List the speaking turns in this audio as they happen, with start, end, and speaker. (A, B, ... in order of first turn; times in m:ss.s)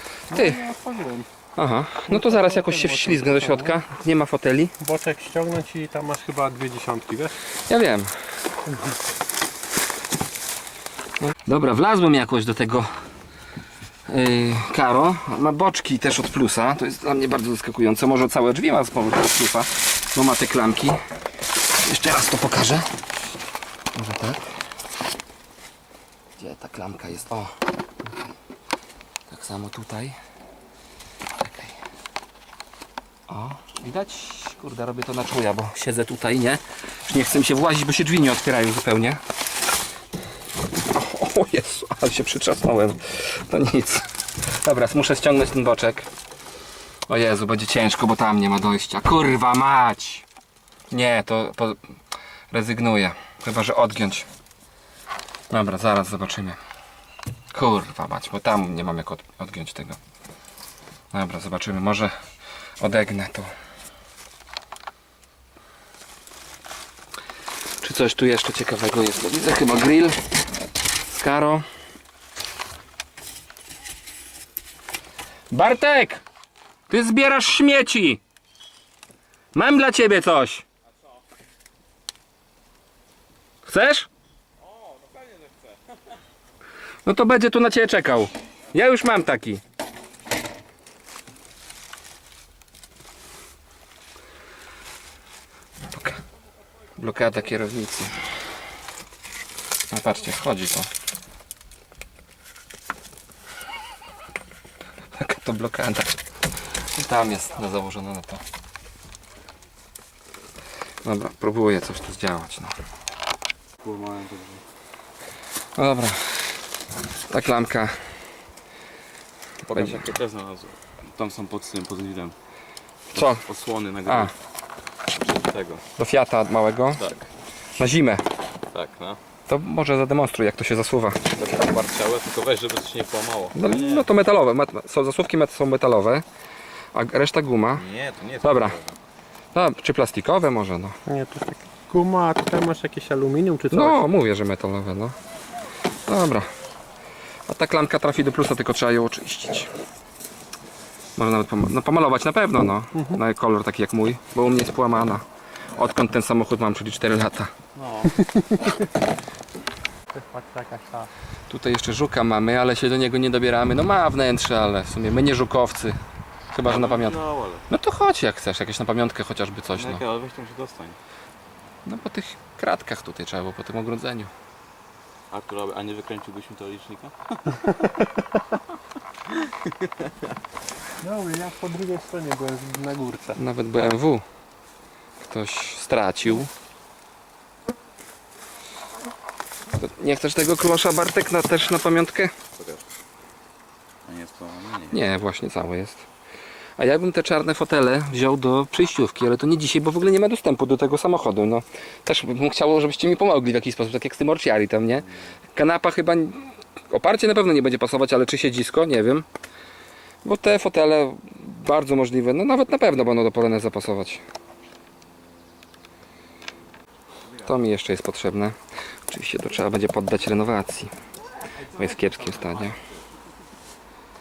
0:00.3-0:01.3 A
0:00.3-0:00.6 B
0:01.6-0:04.7 B
0:02.1-0:03.8 A
0:04.8-0:07.3 A
0:07.7-0:08.1 B
0:11.3-0:12.9 B
0:14.1-0:21.0 B
0:21.8-0:22.9 B
0:23.9-0:24.5 B
0:26.4-0:27.5 B
0:29.3-0:30.2 B
0:31.4-0:31.8 B
0:33.3-0:39.2 B
0:40.8-0:46.1 B
0:47.1-0:50.3 B
0:50.9-0:51.8 B
0:52.5-0:54.3 B
0:55.5-0:56.6 B
0:57.5-1:00.0 B
1:01.1-1:02.1 B
1:02.8-1:03.5 B
1:07.8-1:10.2 B
1:11.1-1:11.6 B
1:15.5-1:16.2 B
1:16.9-1:18.2 B
1:19.5-1:20.6 B
1:23.7-1:24.1 B
1:24.6-1:25.8 C
1:27.1-1:29.6 B
1:35.9-1:36.2 B
1:37.0-1:38.2 B
1:39.9-1:40.9 B
1:45.1-1:46.1 B
1:46.9-1:48.4 B
1:51.0-1:52.8 B
1:53.8-1:54.6 C
1:55.8-1:56.6 B
1:57.3-1:58.0 B
1:59.6-2:02.4 C
1:59.7-2:00.1 B
2:03.1-2:03.4 B
2:03.2-2:04.3 C
2:04.1-2:04.3 B
2:05.1-2:05.8 C
2:06.0-2:07.0 B
2:07.0-2:07.2 C
2:07.8-2:08.2 B
2:08.7-2:09.2 C
2:09.5-2:11.2 B
2:11.3-2:14.1 C
2:13.6-2:16.2 B
2:16.9-2:17.8 B
2:17.7-2:19.0 C
2:18.4-2:18.8 B
2:19.6-2:21.0 B
2:21.1-2:24.1 A
2:23.7-2:25.2 B
2:26.1-2:26.5 B
2:27.5-2:29.7 B
2:31.2-2:35.2 B
2:33.0-2:33.2 A
2:35.8-2:37.5 B
2:37.8-2:38.8 C
2:38.2-2:38.5 A
2:40.1-2:41.1 A
2:41.5-2:46.0 B
2:46.5-2:47.2 B
2:46.6-2:47.6 C
2:47.7-2:50.0 B
2:49.8-2:51.0 C
2:51.8-2:54.3 B
2:55.3-2:57.9 C
2:59.4-2:59.9 C
3:01.0-3:03.4 A
3:03.4-3:04.2 B
3:05.2-3:06.5 B
3:09.8-3:12.3 B
3:12.6-3:12.8 C
3:14.1-3:15.0 C
3:14.9-3:16.0 B
3:16.8-3:29.3 B
3:30.2-3:34.2 B
3:37.2-3:37.6 C
3:37.5-3:38.6 B
3:39.1-3:40.9 B
3:41.4-3:43.1 C
3:41.8-3:42.8 B